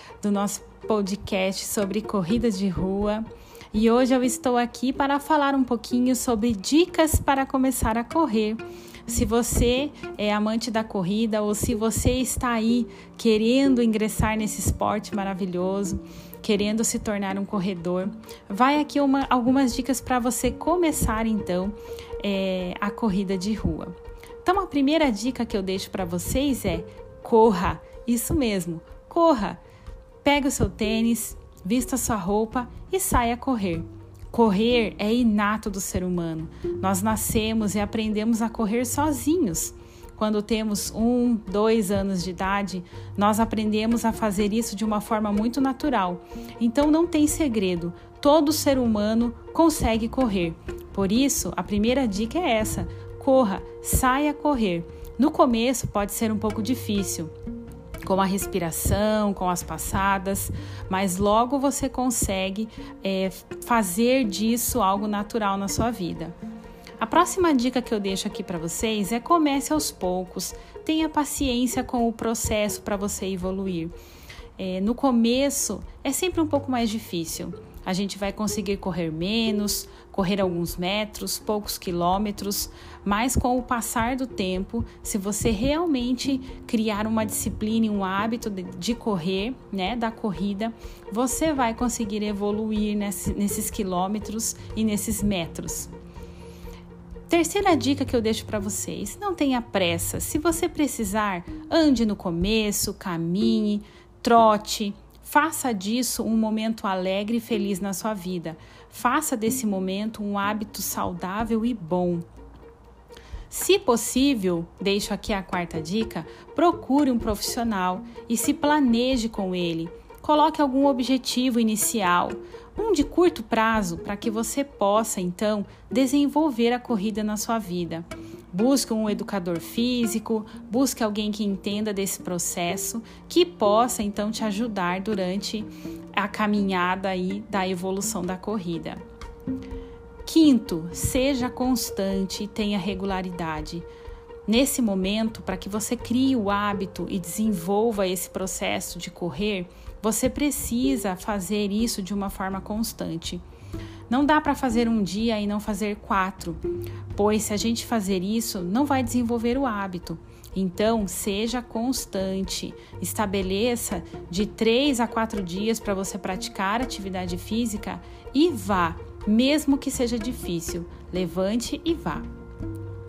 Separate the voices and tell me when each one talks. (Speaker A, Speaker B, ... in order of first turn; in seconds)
Speaker A: 0.2-29.6, 30.2-57.3, 58.0-66.3, 67.0-73.9, 74.6-95.9, 97.3-112.2, 113.5-139.0, 140.2-143.8, 144.4-153.4, 154.1-156.6, 157.1-172.3